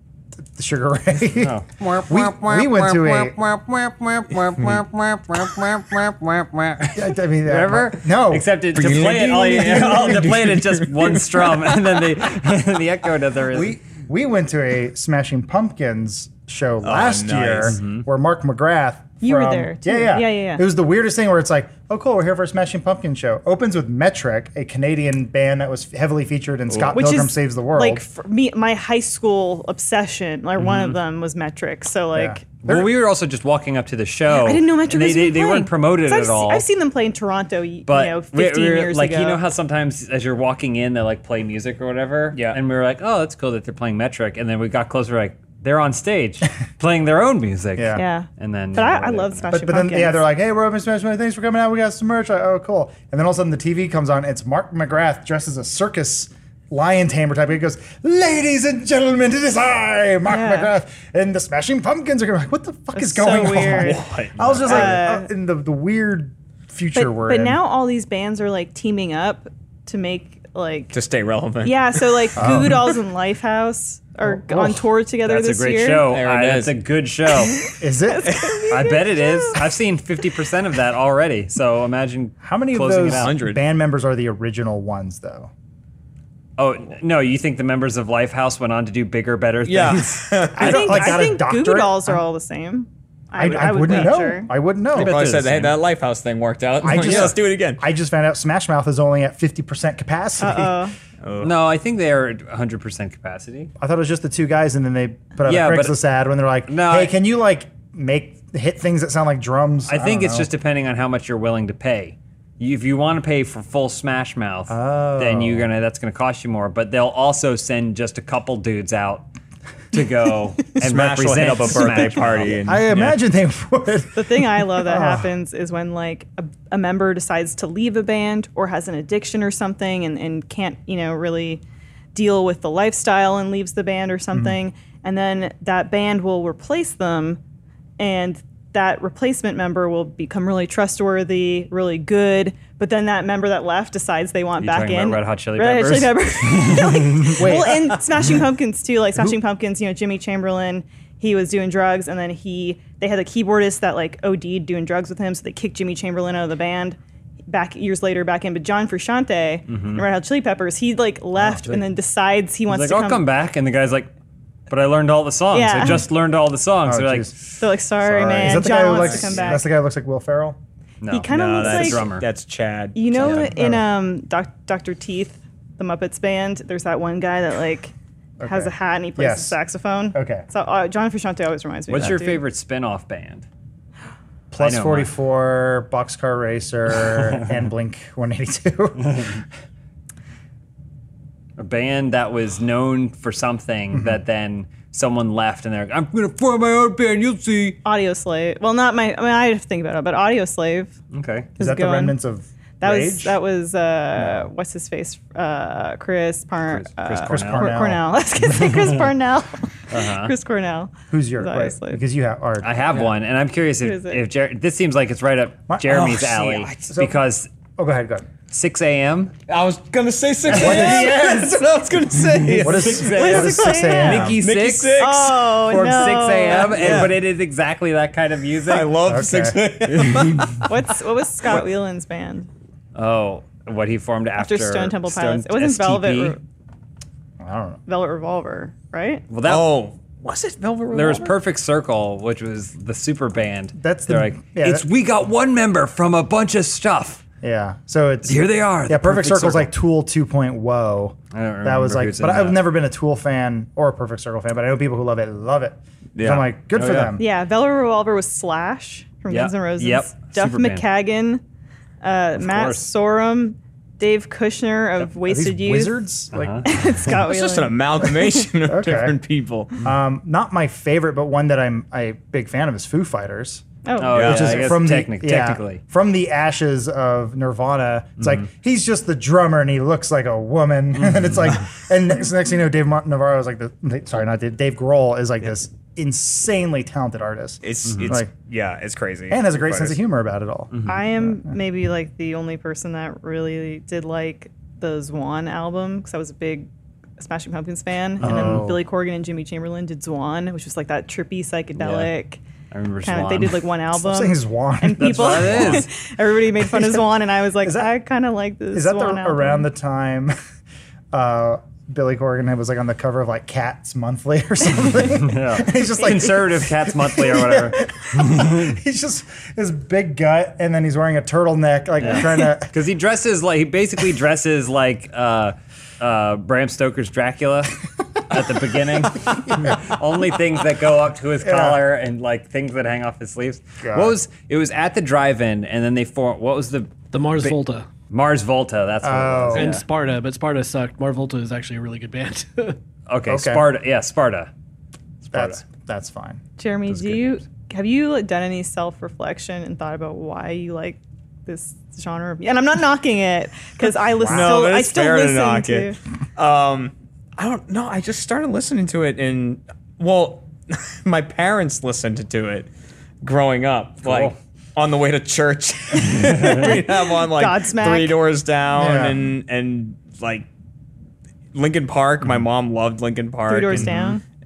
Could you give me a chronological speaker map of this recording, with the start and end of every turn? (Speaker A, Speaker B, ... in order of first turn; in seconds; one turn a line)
Speaker A: 0.5-3.4
Speaker B: 1.4-13.8
Speaker A: 6.9-10.3
Speaker C: 8.7-12.0
Speaker A: 13.5-28.0
Speaker C: 16.8-17.8
Speaker B: 17.6-18.0
Speaker D: 19.2-20.6
Speaker C: 26.7-26.9
Speaker D: 26.9-32.4
Speaker A: 32.1-32.9
Speaker B: 32.6-36.6
Speaker D: 34.3-39.4
Speaker B: 37.9-49.6
Speaker C: 42.3-42.6
Speaker A: 47.8-48.0
Speaker D: 48.0-50.2
Speaker A: 49.5-67.6
Speaker D: 60.2-60.7
Speaker D: 62.9-64.0
Speaker C: 63.6-64.9
Speaker B: 64.4-64.7
Speaker D: 64.6-65.3
Speaker D: 66.9-71.0
Speaker C: 70.9-72.6
Speaker D: 71.6-76.2
Speaker A: 72.3-72.9
Speaker A: 74.2-74.8
Speaker B: 75.2-77.7
Speaker C: 76.1-76.8
Speaker D: 77.4-79.7
Speaker A: 77.8-78.4
Speaker C: 78.3-78.6
Speaker B: 78.7-83.4
Speaker A: 82.4-85.5
Speaker C: 83.0-83.6
Speaker B: 86.6-90.3
Speaker C: 89.6-91.1
Speaker A: 90.5-92.2
Speaker D: 90.6-94.5
Speaker A: 93.3-95.3
Speaker B: 94.9-95.8
Speaker C: 94.9-97.8
Speaker A: 96.8-100.8
Speaker B: 96.9-97.3
Speaker D: 100.4-100.9
Speaker C: 101.2-101.6
Speaker B: 101.4-103.7
Speaker A: 103.8-110.5
Speaker B: 105.4-106.0
Speaker B: 106.7-107.1
Speaker B: 109.9-119.3
Speaker A: 114.7-115.7
Speaker B: 119.9-122.6
Speaker C: 120.8-123.2
Speaker A: 122.5-125.3
Speaker D: 124.1-131.6
Speaker D: 132.1-137.4
Speaker D: 138.0-157.0
Speaker B: 144.6-147.5
Speaker A: 147.4-148.0
Speaker D: 157.5-163.3
Speaker B: 159.7-160.1
Speaker B: 162.7-164.1
Speaker B: 164.7-167.4
Speaker D: 165.5-166.0
Speaker A: 166.8-167.5
Speaker D: 167.6-169.7
Speaker A: 168.0-170.6
Speaker B: 168.4-169.5
Speaker B: 171.0-172.3
Speaker D: 171.1-172.1
Speaker C: 171.3-173.4
Speaker D: 172.9-182.4
Speaker B: 173.2-173.5
Speaker A: 173.2-173.9
Speaker A: 178.4-179.6
Speaker A: 180.1-180.4
Speaker B: 181.9-183.4
Speaker A: 184.5-189.4
Speaker B: 184.6-185.1
Speaker B: 191.6-197.8
Speaker A: 193.9-194.2
Speaker D: 197.8-200.9
Speaker B: 201.1-201.5
Speaker D: 201.6-202.2
Speaker A: 201.6-203.4
Speaker D: 202.8-212.0
Speaker B: 206.7-207.7
Speaker A: 207.2-208.0
Speaker B: 208.5-209.0
Speaker B: 209.9-210.3
Speaker A: 211.1-212.8
Speaker B: 212.6-217.5
Speaker D: 213.8-214.2
Speaker A: 215.7-217.2
Speaker C: 216.1-216.8
Speaker A: 217.8-218.3
Speaker B: 218.5-219.3
Speaker C: 219.5-223.2
Speaker B: 220.4-221.6
Speaker A: 220.5-221.3
Speaker B: 222.2-225.0
Speaker A: 222.6-224.4
Speaker D: 223.1-224.3
Speaker C: 224.4-225.6
Speaker D: 224.9-227.0
Speaker A: 225.7-227.1
Speaker B: 225.7-228.9
Speaker C: 226.7-227.2
Speaker C: 228.6-230.7
Speaker A: 229.0-229.6
Speaker D: 230.6-232.5
Speaker B: 232.9-236.3
Speaker D: 234.4-236.4
Speaker A: 237.4-237.8
Speaker D: 237.9-239.2
Speaker B: 239.3-239.7
Speaker C: 239.4-241.4
Speaker B: 240.9-247.2
Speaker A: 243.7-244.9
Speaker A: 247.4-257.2
Speaker B: 248.2-249.7
Speaker B: 251.3-252.6
Speaker C: 256.1-256.5
Speaker B: 256.7-257.2
Speaker D: 257.2-261.4
Speaker B: 259.3-260.8
Speaker D: 262.0-266.0
Speaker B: 262.4-262.9
Speaker A: 265.2-266.6
Speaker B: 266.3-266.7
Speaker D: 266.6-268.4
Speaker C: 267.1-269.7
Speaker A: 268.7-269.1
Speaker A: 269.8-288.3
Speaker D: 273.8-274.3
Speaker B: 274.0-275.8
Speaker C: 274.1-274.7
Speaker C: 287.6-290.0
Speaker B: 287.9-288.1
Speaker A: 289.3-291.4
Speaker B: 290.7-291.0
Speaker D: 290.9-302.4
Speaker B: 298.2-298.7
Speaker A: 298.2-298.8
Speaker B: 301.8-302.1
Speaker B: 302.7-303.6
Speaker D: 303.0-309.6
Speaker A: 303.9-305.9
Speaker B: 305.0-305.9
Speaker A: 307.6-307.9
Speaker A: 308.7-310.3
Speaker A: 311.1-322.7
Speaker B: 315.1-318.7
Speaker B: 322.0-337.6
Speaker A: 331.4-331.9
Speaker A: 333.8-334.2
Speaker E: 337.1-337.9
Speaker B: 338.1-339.8
Speaker A: 339.0-339.8
Speaker E: 339.5-342.8
Speaker B: 343.1-344.5
Speaker A: 343.3-343.7
Speaker B: 345.2-345.6
Speaker A: 345.3-346.4
Speaker D: 346.6-356.0
Speaker B: 346.9-347.4
Speaker C: 354.3-362.7
Speaker C: 363.2-370.5
Speaker B: 364.0-364.4
Speaker B: 366.1-366.7
Speaker D: 366.4-368.2
Speaker A: 368.8-369.3
Speaker C: 371.5-374.0
Speaker D: 373.5-374.2